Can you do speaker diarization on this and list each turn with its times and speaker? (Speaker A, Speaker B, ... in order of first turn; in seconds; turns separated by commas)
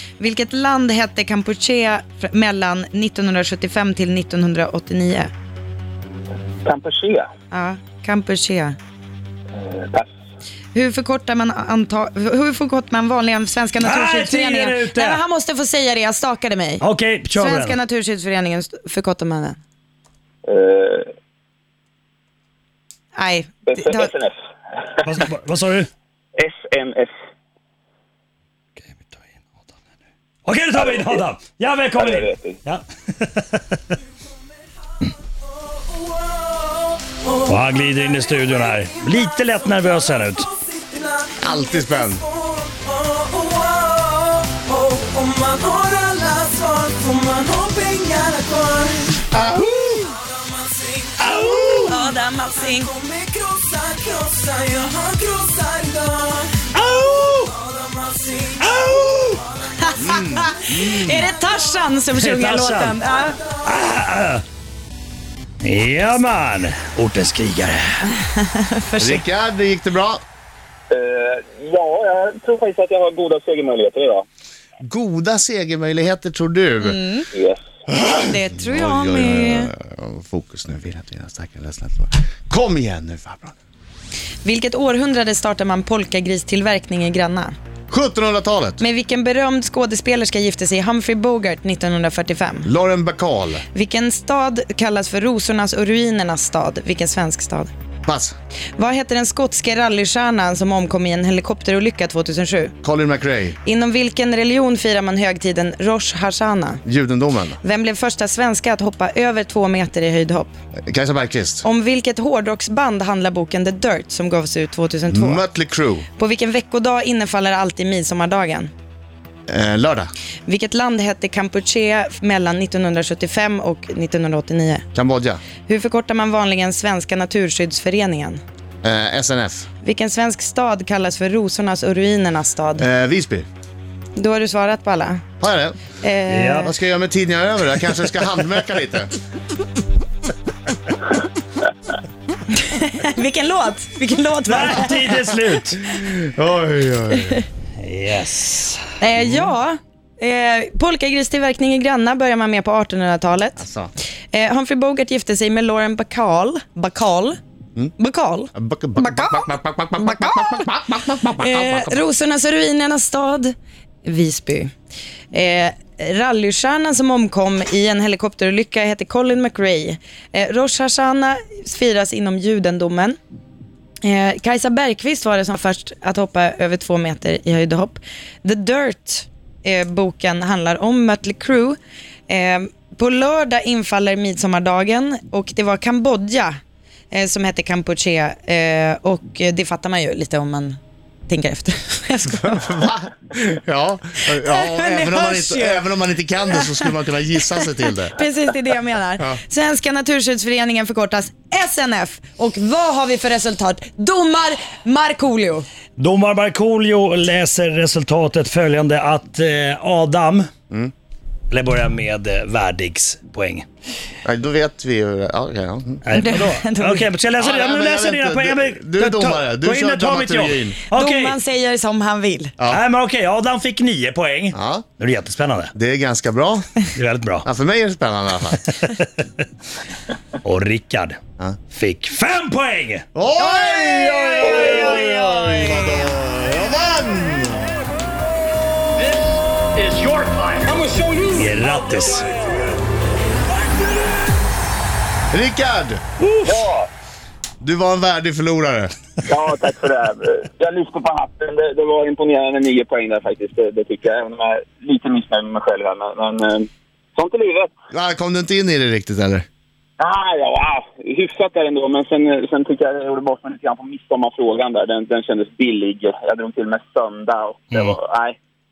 Speaker A: 0.2-5.3, Speaker B: 6.6-7.3, Speaker A: 7.5-8.8, Speaker B: 9.5-10.1, Speaker A: 10.7-16.8, Speaker C: 13.8-15.2, Speaker C: 16.8-17.8, Speaker A: 17.3-19.6, Speaker B: 20.4-21.1, Speaker A: 23.1-24.1, Speaker B: 23.7-25.0, Speaker C: 25.0-25.9, Speaker B: 26.4-27.1, Speaker C: 28.8-29.8, Speaker C: 30.4-33.8, Speaker B: 30.7-31.2, Speaker B: 31.9-32.6, Speaker D: 36.5-37.3, Speaker C: 37.4-40.5, Speaker D: 40.6-41.1, Speaker E: 41.4-42.2, Speaker D: 41.8-49.2, Speaker E: 49.3-49.8, Speaker D: 50.2-50.9, Speaker C: 51.2-51.9, Speaker A: 51.7-53.0, Speaker D: 53.1-56.6, Speaker C: 56.7-57.5, Speaker D: 57.6-58.6, Speaker C: 58.6-59.4, Speaker A: 59.7-63.4, Speaker E: 60.0-61.3, Speaker C: 62.1-63.0, Speaker C: 63.6-64.4, Speaker C: 65.6-68.1, Speaker A: 68.1-69.2, Speaker E: 69.0-70.2, Speaker B: 70.9-74.2, Speaker E: 74.8-77.0, Speaker A: 76.8-77.3, Speaker B: 77.3-77.6, Speaker E: 77.9-83.5, Speaker A: 78.2-79.7, Speaker A: 84.4-87.5, Speaker E: 87.9-88.8, Speaker A: 88.8-92.7, Speaker E: 92.6-93.6, Speaker A: 93.7-97.7, Speaker E: 98.0-98.3, Speaker A: 98.8-102.7, Speaker E: 102.8-103.6, Speaker A: 103.6-106.8, Speaker E: 106.8-107.6, Speaker A: 107.6-110.5, Speaker E: 110.9-111.6, Speaker A: 111.6-115.4, Speaker E: 115.1-116.0, Speaker A: 116.2-118.7, Speaker E: 119.5-120.1, Speaker A: 120.5-124.8, Speaker E: 124.9-125.4, Speaker A: 125.7-128.4, Speaker E: 128.8-129.7, Speaker A: 129.8-132.8, Speaker E: 132.8-133.4, Speaker A: 134.2-135.2, Speaker E: 135.4-135.8, Speaker A: 136.0-136.7, Speaker C: 136.3-136.7, Speaker E: 136.6-139.1, Speaker A: 142.5-145.2, Speaker C: 144.4-145.8, Speaker E: 145.9-147.4, Speaker C: 147.8-148.8, Speaker A: 149.0-153.6, Speaker E: 153.6-153.9, Speaker A: 154.3-157.4, Speaker A: 158.0-160.7, Speaker E: 158.5-162.0, Speaker A: 161.4-164.7, Speaker A: 165.3-173.2, Speaker A: 174.0-181.8, Speaker A: 182.3-186.5, Speaker A: 187.1-192.8, Speaker E: 192.3-198.2, Speaker A: 194.2-195.8, Speaker A: 196.5-196.9, Speaker A: 198.1-205.6, Speaker C: 206.0-210.5, Speaker C: 211.5-213.7, Speaker E: 214.2-216.0, Speaker C: 216.0-221.4, Speaker A: 216.1-217.1, Speaker E: 217.4-220.8, Speaker A: 220.9-222.5, Speaker C: 222.7-225.7, Speaker E: 224.5-224.8, Speaker E: 225.7-226.7, Speaker C: 226.9-227.4, Speaker E: 227.4-228.7, Speaker C: 228.8-229.2, Speaker C: 230.4-231.2, Speaker C: 231.7-233.1, Speaker E: 233.1-237.7, Speaker A: 233.4-236.0, Speaker C: 239.8-240.7, Speaker C: 241.3-242.3, Speaker E: 245.3-246.0, Speaker B: 246.4-246.9, Speaker E: 247.6-248.9, Speaker B: 249.2-257.7, Speaker E: 257.9-259.4, Speaker B: 260.0-268.4, Speaker C: 267.7-268.0